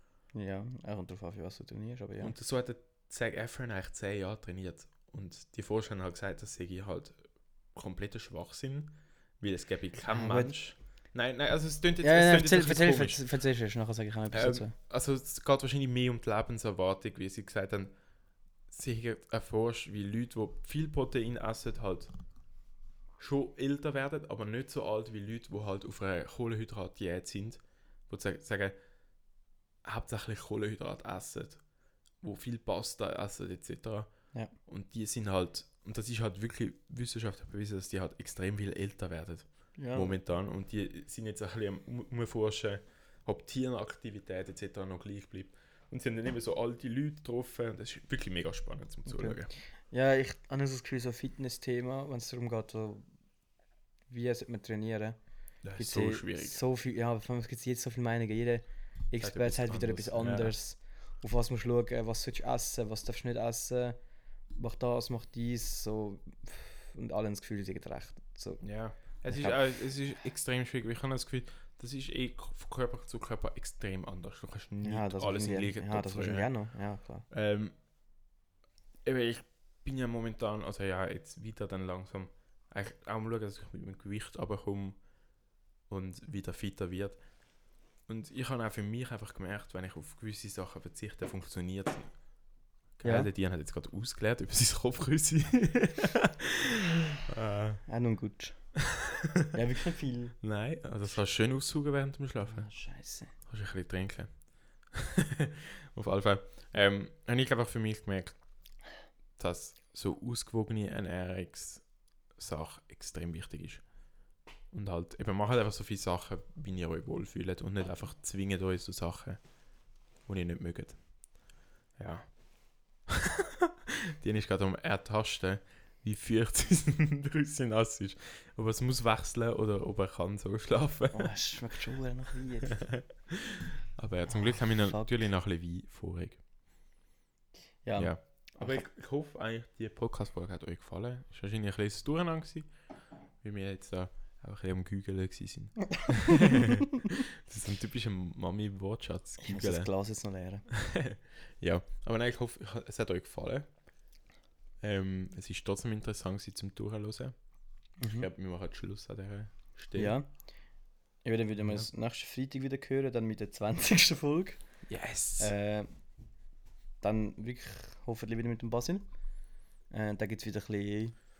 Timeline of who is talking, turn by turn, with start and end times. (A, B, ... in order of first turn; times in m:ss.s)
0:00.3-0:02.3 A
0:02.2-0:13.2 B
0:10.1-0:10.6 A
0:12.0-0:14.7 A
0:14.3-0:18.0 B
0:18.7-0:22.1 B
0:23.2-0:28.8 B
0:29.8-0:31.6 B
0:32.2-0:49.5 B
0:39.8-0:40.1 A
0:49.1-0:53.1 A
0:54.1-0:55.2 A
0:55.6-0:56.6 B
0:55.8-1:04.0 A
0:59.2-1:00.6 B
1:04.6-1:09.6 A
1:08.6-1:16.5 B
1:14.8-1:17.3 A
1:17.3-1:17.7 B
1:19.0-1:25.0 B
1:25.9-1:27.2 B
1:28.1-1:32.1 B
1:33.0-1:37.8 B
1:33.0-1:33.3 A
1:37.9-1:38.7 A
1:39.5-1:40.4 A
1:40.4-1:42.7 B
1:42.5-1:43.3 A
1:43.5-1:48.4 B
1:49.4-1:51.8 B
1:52.4-1:53.8 B
1:54.7-1:59.4 B
2:00.2-2:01.0 B
2:02.0-2:11.3 B
2:11.1-2:12.9 A
2:12.7-2:16.4 B
2:14.3-2:15.1 A
2:17.8-2:18.8 A
2:18.0-2:22.7 B
2:23.4-2:29.9 B
2:29.4-2:30.7 A
2:30.7-2:33.7 B
2:34.8-2:37.4 B
2:38.0-2:38.3 A
2:38.1-2:40.2 B
2:40.0-2:40.3 A
2:41.2-2:44.6 A
2:44.9-2:45.5 B
2:45.4-2:45.9 A
2:47.0-2:49.0 A
2:49.9-2:51.2 A